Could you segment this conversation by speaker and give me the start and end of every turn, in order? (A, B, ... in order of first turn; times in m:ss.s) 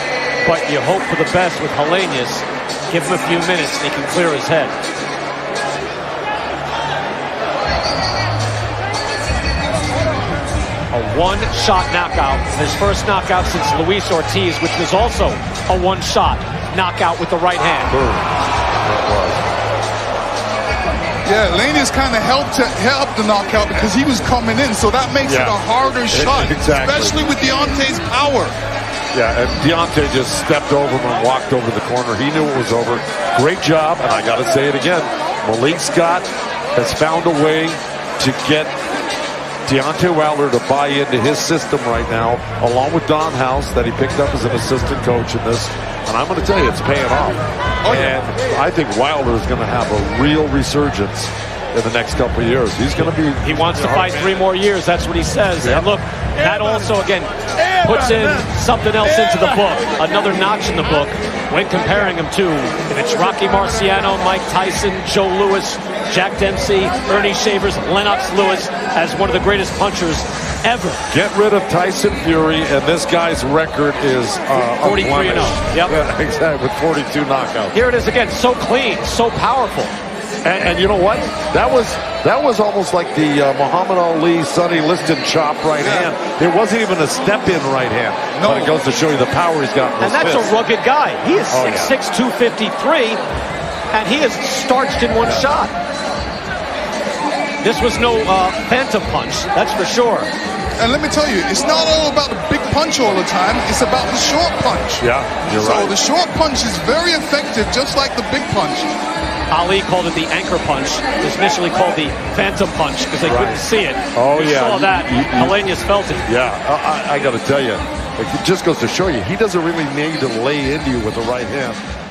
0:00.4-0:04.7 A
0:10.9-0:18.0 A
0:17.9-0:18.3 B
0:18.8-0:19.4 B
0:21.2-0:28.5 C
0:25.2-0:25.6 B
0:26.1-0:27.2 B
0:29.1-0:38.7 B
0:39.6-0:54.4 B
0:53.0-1:11.0 A
0:55.6-0:55.9 B
1:11.1-1:17.8 B
1:14.7-1:15.9 A
1:17.7-1:19.9 A
1:20.4-1:30.5 B
1:25.8-1:26.1 C
1:28.3-1:28.7 C
1:30.0-1:33.2 A
1:31.5-1:31.9 B
1:33.9-1:35.7 A
1:37.6-1:40.3 A
1:40.8-1:48.9 C
1:45.0-1:45.9 B
1:49.5-1:56.3 A
1:53.2-1:55.6 B
1:56.2-2:01.8 B